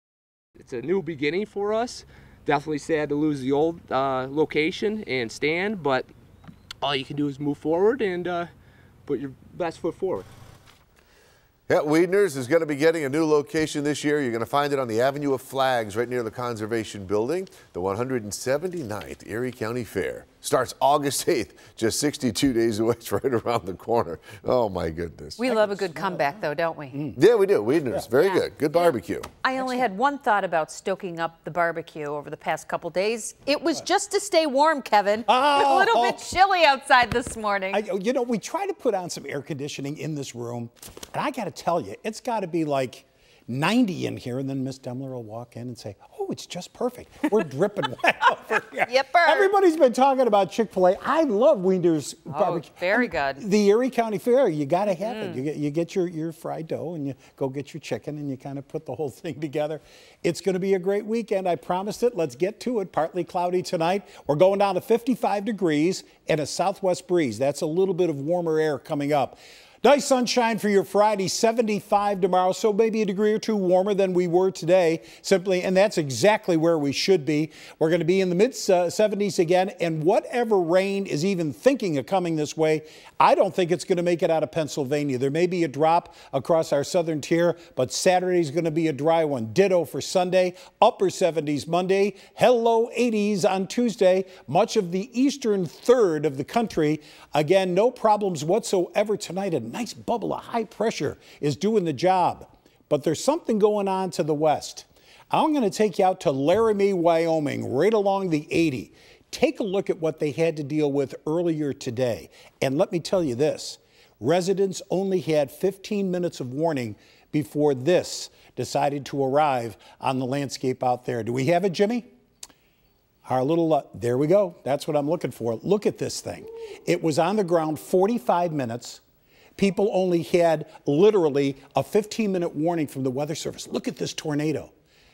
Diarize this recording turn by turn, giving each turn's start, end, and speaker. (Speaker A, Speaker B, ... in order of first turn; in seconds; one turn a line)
Speaker A: 0.6-6.1
Speaker A: 6.8-8.5
Speaker A: 9.1-10.2
Speaker B: 11.7-25.4
Speaker C: 25.4-27.1
Speaker D: 25.5-27.2
Speaker B: 27.1-29.3
Speaker C: 28.1-28.9
Speaker C: 29.4-37.8
Speaker D: 35.3-36.3
Speaker D: 37.7-122.1
Speaker C: 48.9-49.5
Speaker C: 52.3-53.4
Speaker C: 54.9-55.4
Speaker D: 123.2-129.0
Speaker D: 129.6-134.7